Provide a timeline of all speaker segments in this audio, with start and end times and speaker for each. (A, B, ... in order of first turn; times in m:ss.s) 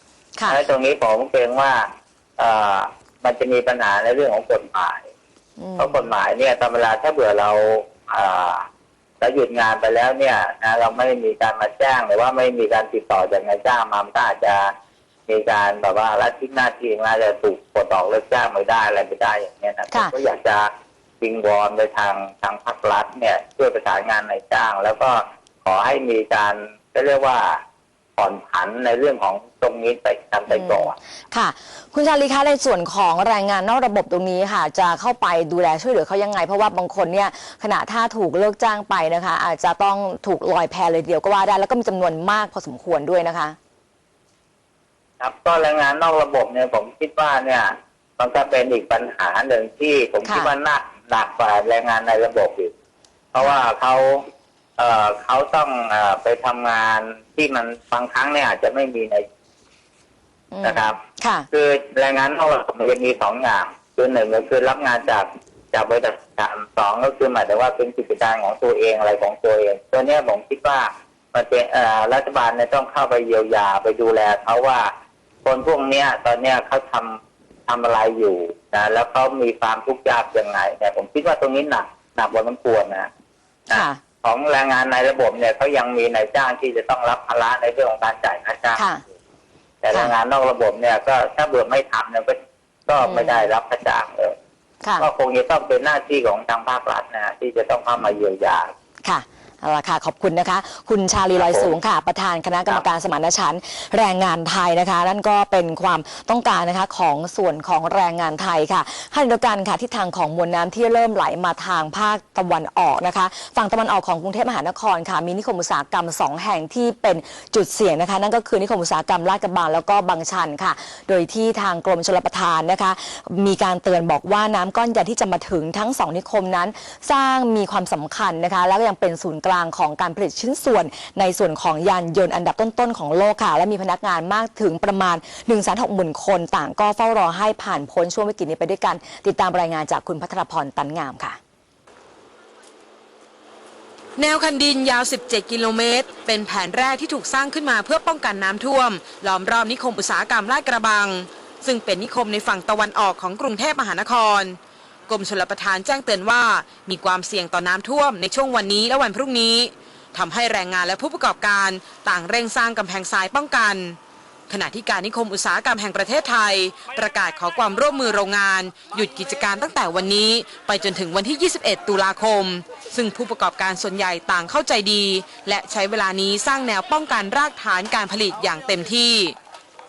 0:00.5-0:05.1 A
0:05.6-0:06.0 B
0:05.8-0:08.6 A
0:09.2-0:14.7 A
0:15.3-0:20.7 A
0:21.2-0:27.6 A
0:28.2-0:30.9 A
0:30.5-0:43.6 B
0:45.2-0:52.7 A
0:50.2-0:50.5 B
0:53.3-0:54.2 A
0:54.8-0:59.2 A
1:00.5-1:01.5 B
1:00.6-1:01.0 A
1:01.5-1:14.9 A
1:15.4-1:23.1 A
1:23.7-1:24.0 B
1:23.7-1:28.8 A
1:28.8-1:29.0 B
1:29.8-1:34.4 A
1:33.0-1:33.5 B
1:35.0-1:38.7 A
1:39.0-2:21.4 B
1:41.4-1:41.7 A
2:24.2-2:44.0 C
2:44.5-2:59.4 C